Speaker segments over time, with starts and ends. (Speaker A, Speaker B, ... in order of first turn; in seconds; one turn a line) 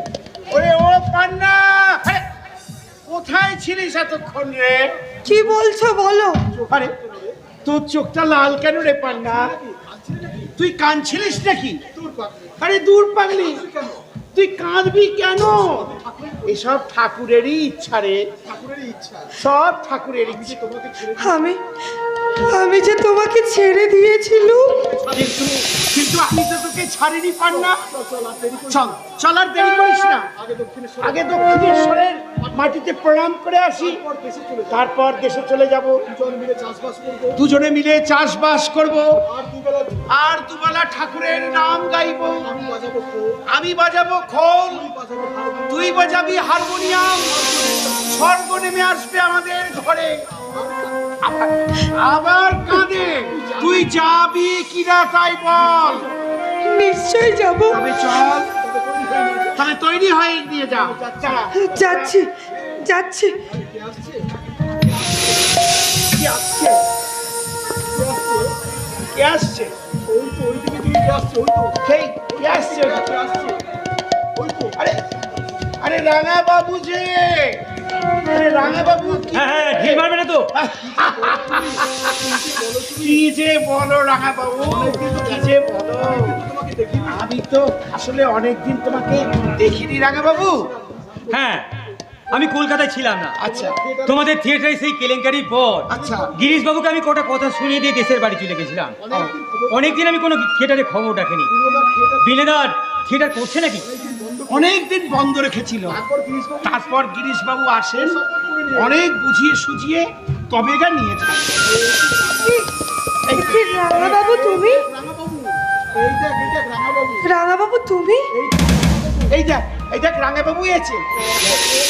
Speaker A: 0.5-2.2
Speaker A: 3.1-5.0
Speaker B: 5.3-6.4
Speaker A: 6.7-6.9
Speaker A: 7.7-9.6
Speaker A: 10.6-11.8
Speaker A: 12.6-13.7
Speaker A: 14.3-18.3
Speaker A: 19.3-20.8
Speaker B: 21.0-21.6
Speaker B: 22.4-24.9
Speaker A: 25.1-27.9
Speaker A: 28.5-30.3
Speaker A: 31.0-34.0
Speaker A: 34.6-36.2
Speaker A: 37.3-39.2
Speaker A: 40.1-42.8
Speaker A: 43.5-45.0
Speaker A: 45.6-50.2
Speaker A: 51.2-56.1
Speaker B: 56.7-57.8
Speaker A: 57.7-58.5
Speaker A: 59.5-61.9
Speaker B: 61.5-62.3
Speaker B: 62.9-63.3
Speaker A: 66.1-66.8
Speaker A: 69.1-69.7
Speaker A: 71.8-73.4
Speaker A: 74.7-75.0
Speaker A: 75.8-77.6
Speaker A: 78.2-86.4
Speaker C: 79.3-80.5
Speaker A: 86.9-90.7
Speaker C: 91.3-91.7
Speaker C: 92.3-93.4
Speaker A: 93.4-93.8
Speaker C: 94.0-99.1
Speaker A: 95.9-96.3
Speaker C: 99.7-101.5
Speaker C: 102.2-103.9
Speaker A: 104.5-106.0
Speaker A: 106.6-111.5
Speaker B: 113.3-114.9
Speaker B: 117.2-118.2
Speaker A: 119.3-121.5